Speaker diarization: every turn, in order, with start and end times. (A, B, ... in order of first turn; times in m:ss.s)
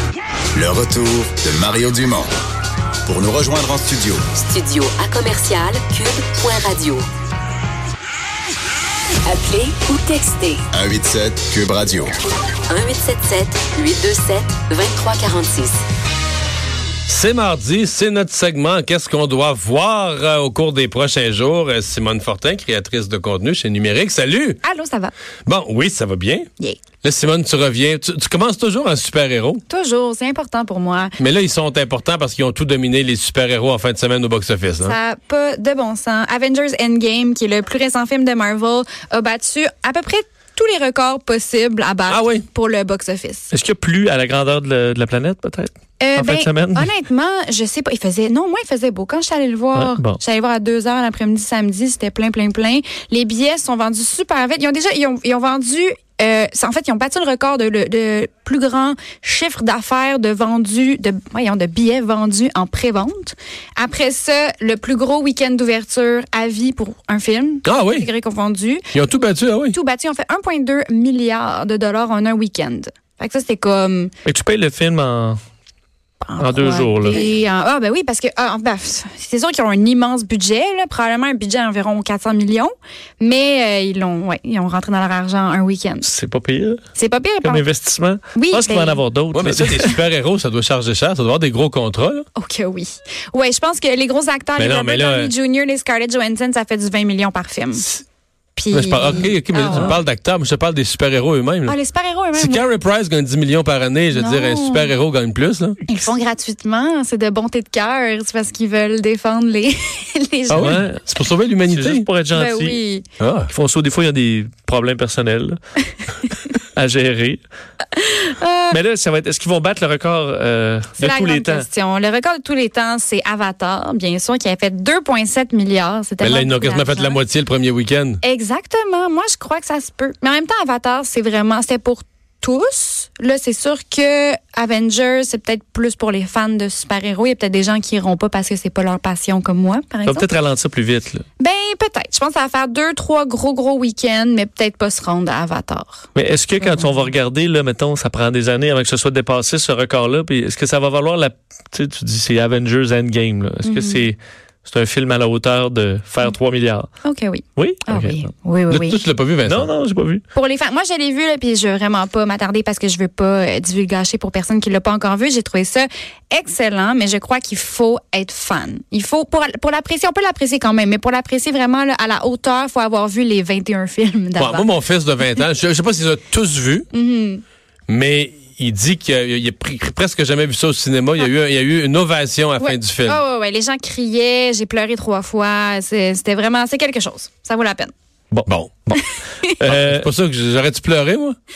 0:00.5-0:02.3 A
0:03.1-0:04.2 A
0:04.4-0:07.1 B
0:09.2-0:10.6 B
0:10.7-0:12.1 A
0:12.7-0:15.8 B
0:17.1-0:24.6 C
0:24.6-0:25.1 D
0:25.5-0:26.5 C
0:27.0-0:29.6 C
0:29.7-0:31.1 D
0:31.2-0:35.0 C
0:34.8-0:43.5 D
0:42.1-0:42.4 C
0:43.5-0:46.9 E
0:46.0-1:08.8 D
0:49.7-0:50.2 E
1:07.7-1:08.1 C
1:08.9-1:09.8 C
1:09.7-1:14.1 D
1:14.2-1:15.4 E
1:16.2-1:26.1 D
1:16.4-1:17.2 E
1:26.0-1:26.8 E
1:27.0-1:27.6 D
1:27.4-1:30.0 E
1:28.3-1:29.0 D
1:29.3-1:32.2 C
1:32.4-1:37.9 D
1:34.6-1:35.3 C
1:38.6-1:40.0 D
1:38.7-1:41.8 C
1:41.7-1:42.6 D
1:42.3-1:45.8 C
1:44.1-1:44.9 D
1:45.9-1:50.8 D
1:50.5-1:51.1 E
1:50.5-1:52.1 C
1:51.7-1:52.8 E
1:52.3-1:53.0 D
1:53.2-1:53.5 C
1:53.5-1:55.6 E
1:56.7-1:57.4 E
1:57.9-1:58.8 D
1:58.7-2:01.7 E
2:01.0-2:07.2 D
2:06.2-2:08.2 C
2:08.2-2:20.3 D
2:20.1-2:21.2 E
2:21.4-2:26.1 D
2:26.2-2:36.9 E
2:26.6-2:26.9 D
2:33.6-2:34.1 D
2:37.0-2:39.0 D
2:37.6-2:38.3 E
2:38.7-2:39.7 C
2:39.4-2:40.2 E
2:40.3-2:54.7 D
2:54.4-2:56.9 C
2:56.9-2:57.4 D
2:57.9-3:03.2 C
3:02.6-3:07.9 D
3:08.3-3:09.0 E
3:09.0-3:09.5 D
3:09.6-3:10.1 E
3:09.6-3:11.4 C